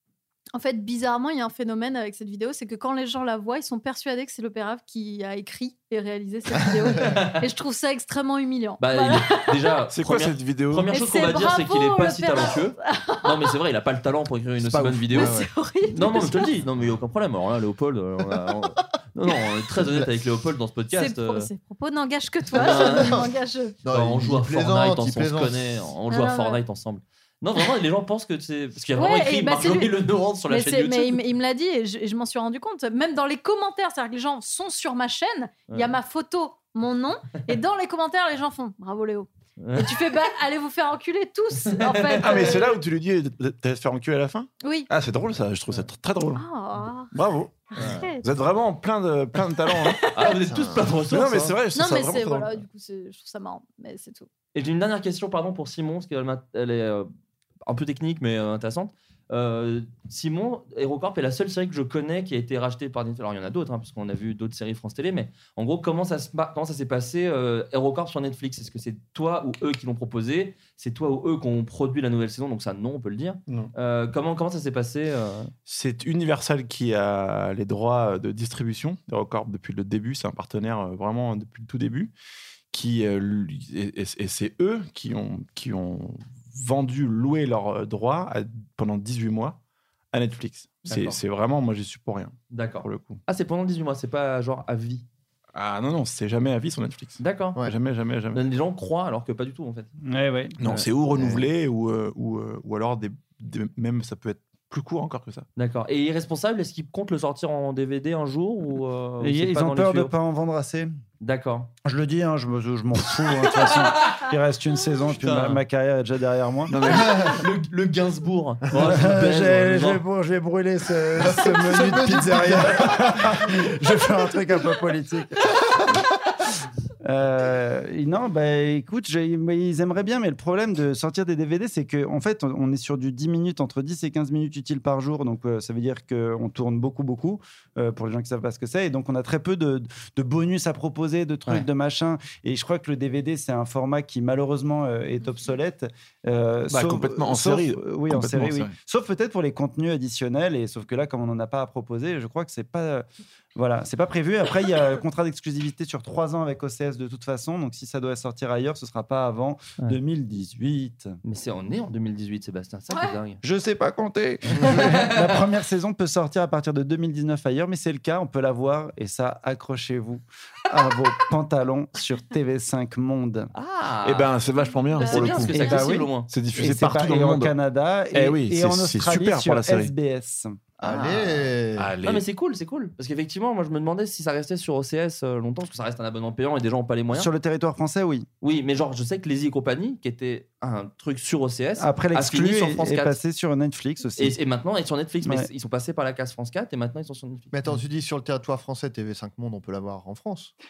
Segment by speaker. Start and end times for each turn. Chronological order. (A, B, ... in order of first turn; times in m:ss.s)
0:00.6-0:09.6 A
0:07.0-0:07.5 B
0:08.8-0:21.5 B
0:09.9-0:10.9 C
0:10.9-0:13.5 A
0:14.6-0:15.5 D
0:15.1-0:16.6 A
0:19.8-0:20.1 D
0:20.9-0:23.8 A
0:22.5-0:23.2 B
0:22.5-0:23.3 D
0:23.8-0:25.9 D
0:23.9-0:31.2 B
0:26.1-0:26.6 A
0:29.0-0:30.0 A
0:30.5-0:42.7 A
0:39.6-0:40.0 B
0:41.6-0:42.6 B
0:42.2-0:46.4 C
0:44.6-0:44.9 A
0:46.4-0:47.1 A
0:47.1-0:50.1 C
0:47.7-0:48.2 A
0:47.8-0:48.1 B
0:49.7-0:50.4 A
0:50.1-0:51.6 B
0:50.4-0:51.0 D
0:51.0-0:52.6 C
0:51.7-0:54.3 A
0:54.5-0:57.1 B
0:57.6-1:15.5 B
1:15.7-1:22.1 C
1:22.7-1:29.6 C
1:30.1-1:33.2 C
1:30.9-1:31.2 B
1:32.5-1:35.0 B
1:35.6-1:38.4 C
1:37.2-1:37.6 B
1:38.3-1:39.9 B
1:40.1-1:40.6 E
1:40.6-1:45.5 C
1:41.1-1:41.5 D
1:45.6-1:50.2 B
1:49.2-1:50.9 E
1:51.2-1:51.7 B
1:51.8-1:56.7 E
1:53.6-1:54.2 B
1:55.1-1:55.6 B
1:56.7-1:57.3 C
1:56.8-2:00.0 B
1:58.8-2:05.5 E
2:01.2-2:03.4 D
2:07.0-2:33.0 E
2:26.7-2:28.8 C
2:33.6-2:41.2 E
2:41.2-2:43.4 B
2:43.4-2:53.5 E
2:44.6-2:45.4 B
2:53.5-2:54.3 B
2:54.0-2:55.6 C
2:54.9-2:55.8 A
2:55.0-2:56.3 B
2:55.5-3:00.6 E
2:56.3-2:57.6 C
2:58.1-2:59.9 C
3:00.8-3:07.3 B
3:00.8-3:01.9 D
3:01.8-3:02.2 C
3:07.1-3:08.3 E
3:08.4-3:13.2 B
3:11.8-3:14.4 E
3:14.2-3:17.5 B
3:17.5-3:20.5 D